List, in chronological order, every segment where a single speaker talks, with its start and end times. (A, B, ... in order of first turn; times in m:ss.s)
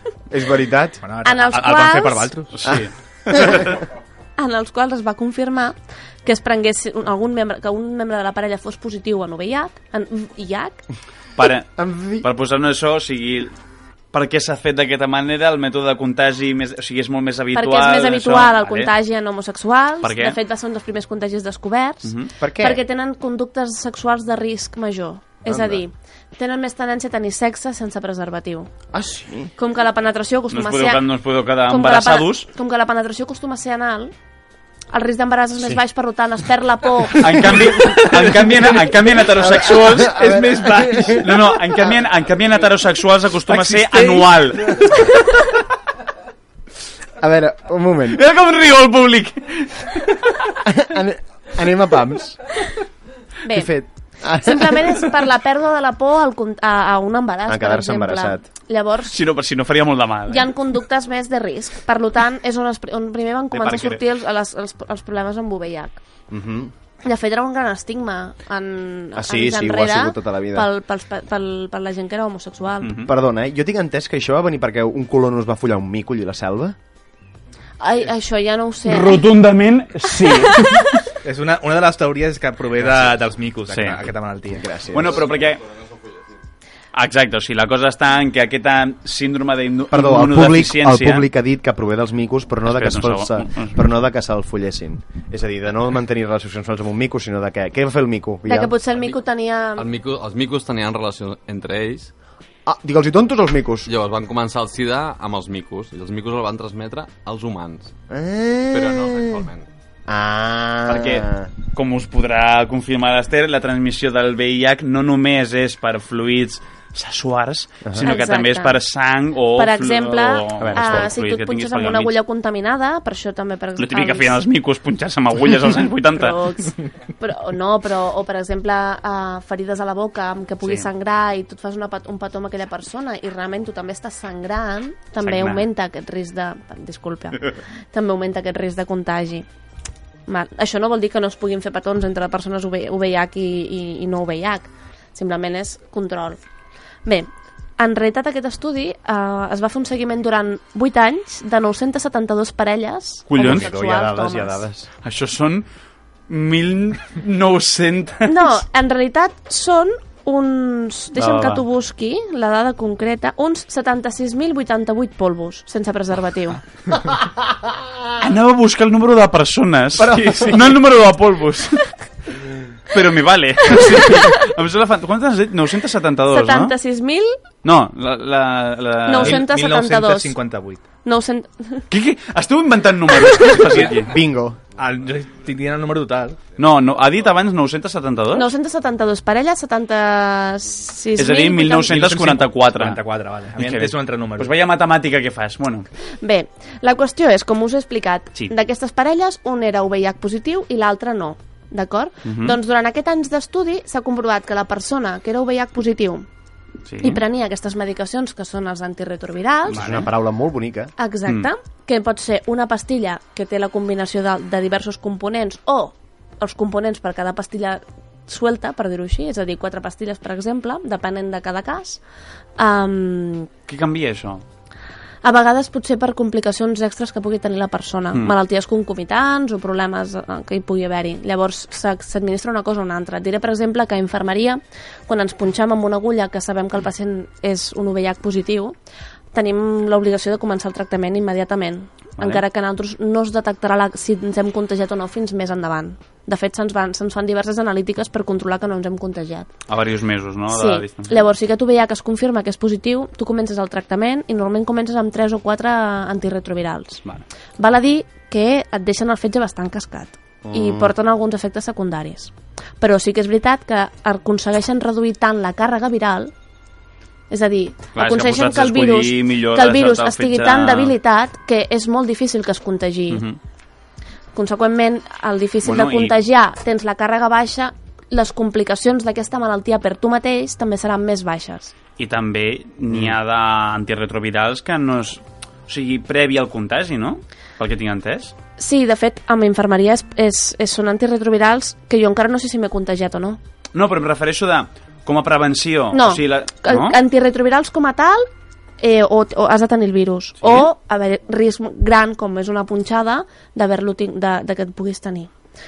0:00.3-0:01.0 A
0:01.0-0:02.7 B
0:01.2-0:02.3 C
0:02.5-0:03.8 D
0:02.7-0:03.7 A
0:04.4-0:10.8 C
0:11.4-0:13.5 D
0:11.8-0:12.2 A
0:14.1-0:18.9 D
0:17.5-0:28.7 C
0:20.0-0:20.4 D
0:22.0-0:22.3 D
0:22.4-0:22.8 A
0:25.4-0:25.8 A
0:28.9-0:29.5 A
0:29.6-0:31.0 C
0:30.5-0:32.5 D
0:31.7-0:34.1 C
0:34.9-0:37.5 C
0:37.2-0:40.4 D
0:37.4-0:38.4 A
0:38.1-0:38.5 B
0:39.2-0:41.9 A
0:40.0-0:41.3 B
0:41.1-0:45.0 D
0:43.5-0:44.4 B
0:47.2-0:48.2 A
0:48.1-0:50.5 D
0:50.6-0:52.4 A
0:53.4-0:53.7 C
0:53.5-0:55.1 A
0:54.4-0:59.2 C
0:57.5-0:58.4 A
0:59.1-1:00.5 D
1:00.3-1:06.0 C
1:03.5-1:04.0 D
1:06.3-1:06.7 A
1:07.0-1:13.0 C
1:09.1-1:10.7 A
1:12.8-1:13.1 D
1:13.0-1:16.8 A
1:17.8-1:19.2 C
1:18.9-1:21.0 D
1:20.4-1:20.9 C
1:21.2-1:24.7 B
1:23.7-1:24.0 D
1:24.5-1:25.3 A
1:24.9-1:25.6 D
1:26.9-1:31.3 D
1:29.9-1:38.7 A
1:32.7-1:33.8 D
1:38.4-1:39.8 C
1:38.9-1:39.2 E
1:39.8-1:42.1 E
1:42.6-1:43.9 A
1:43.8-1:47.9 E
1:48.1-1:49.5 A
1:48.7-1:49.7 E
1:50.1-1:51.5 A
1:50.9-2:02.1 D
1:58.0-1:58.8 C
1:59.6-2:04.4 C
2:00.6-2:01.1 A
2:03.8-2:06.4 D
2:06.2-2:19.4 C
2:10.6-2:10.9 D
2:15.2-2:15.6 D
2:20.3-2:26.4 C
2:27.0-2:34.6 C
2:33.3-2:33.7 D
2:33.4-2:34.9 A
2:35.0-2:35.6 D
2:36.3-2:38.6 D
2:38.2-2:46.6 C
2:41.2-2:41.6 D
2:48.2-2:51.9 D
2:50.0-2:50.7 B
2:52.9-2:56.7 D
2:53.8-2:54.3 C
2:56.3-2:57.4 C
2:57.6-2:59.4 D
2:59.0-3:00.4 C
2:59.2-3:00.8 B
3:01.0-3:01.8 C
3:01.9-3:04.1 D
3:03.9-3:04.6 A
3:04.8-3:06.4 B
3:06.6-3:08.5 D
3:08.3-3:11.9 C
3:11.2-3:13.0 D
3:11.8-3:14.5 B
3:13.5-3:15.9 D
3:16.2-3:26.3 C
3:22.2-3:22.6 D
3:26.8-3:27.2 D
3:27.0-3:29.8 C
3:29.7-3:30.9 A
3:29.7-3:30.1 D
3:31.0-3:42.0 C
3:42.6-3:43.5 C
3:43.7-3:44.4 D
3:45.2-3:58.7 C
3:59.3-4:09.5 C
4:09.7-4:11.2 D
4:10.5-4:17.0 C
4:17.6-4:26.3 C
4:20.4-4:20.9 A
4:27.3-4:33.2 C
4:27.9-4:30.9 D
4:33.1-4:33.4 D
4:34.3-4:41.7 C
4:35.6-4:36.1 D
4:42.0-4:48.3 D
4:48.6-4:53.4 C
4:53.7-4:57.0 D
4:55.9-4:58.3 C
4:58.8-5:05.3 C
5:00.4-5:00.7 D